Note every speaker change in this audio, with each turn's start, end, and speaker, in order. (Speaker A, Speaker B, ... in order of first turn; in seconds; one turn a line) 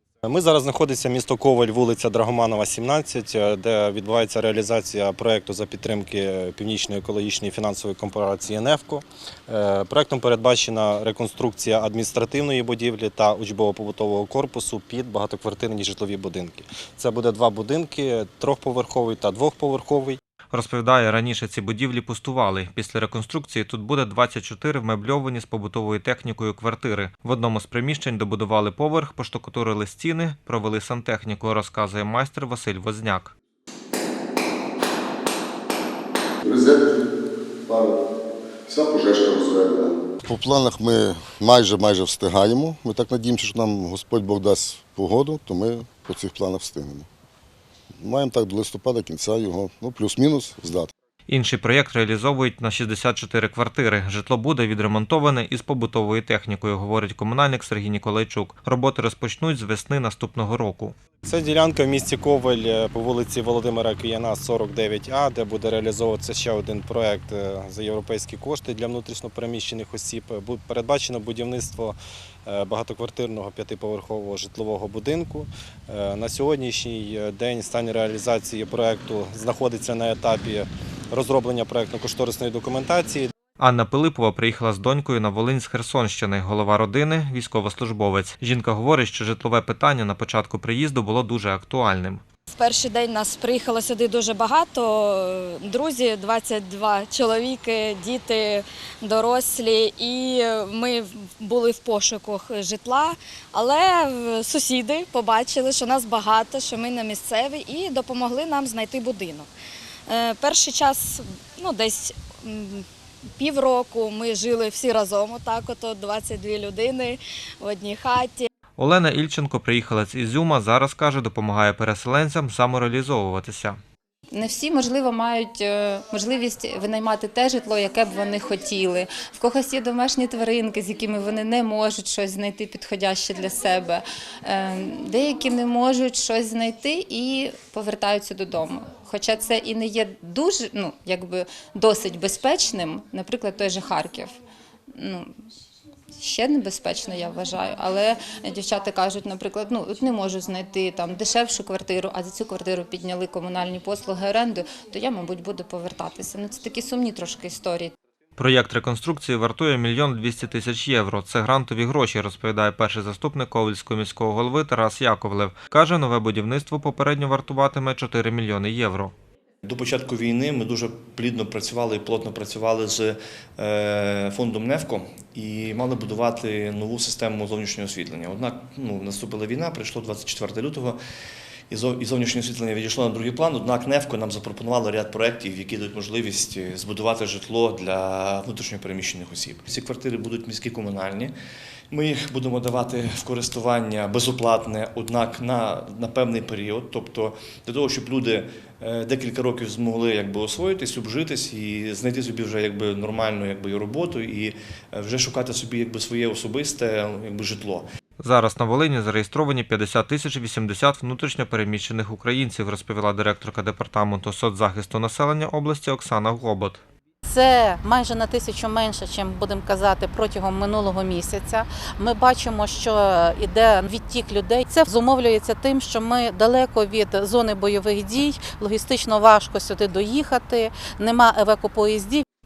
Speaker A: 0.2-20.2
Speaker B: 20.5-33.4
Speaker C: 36.4-37.0
Speaker C: 37.7-38.0
Speaker C: 38.7-47.1
Speaker C: 48.0-50.9
Speaker B: 51.3-61.0
Speaker A: 61.2-83.3
Speaker B: 83.6-92.2
Speaker D: 92.5-109.5
Speaker D: 110.1-112.9
Speaker D: 113.4-118.5
Speaker B: 118.8-123.8
Speaker E: 124.3-144.4
Speaker E: 144.9-145.3
Speaker E: 146.2-157.9
Speaker B: 158.4-169.1
Speaker F: 169.7-181.0
Speaker F: 181.7-191.3
Speaker F: 191.9-207.9
Speaker B: 208.2-216.8
Speaker G: 217.3-232.2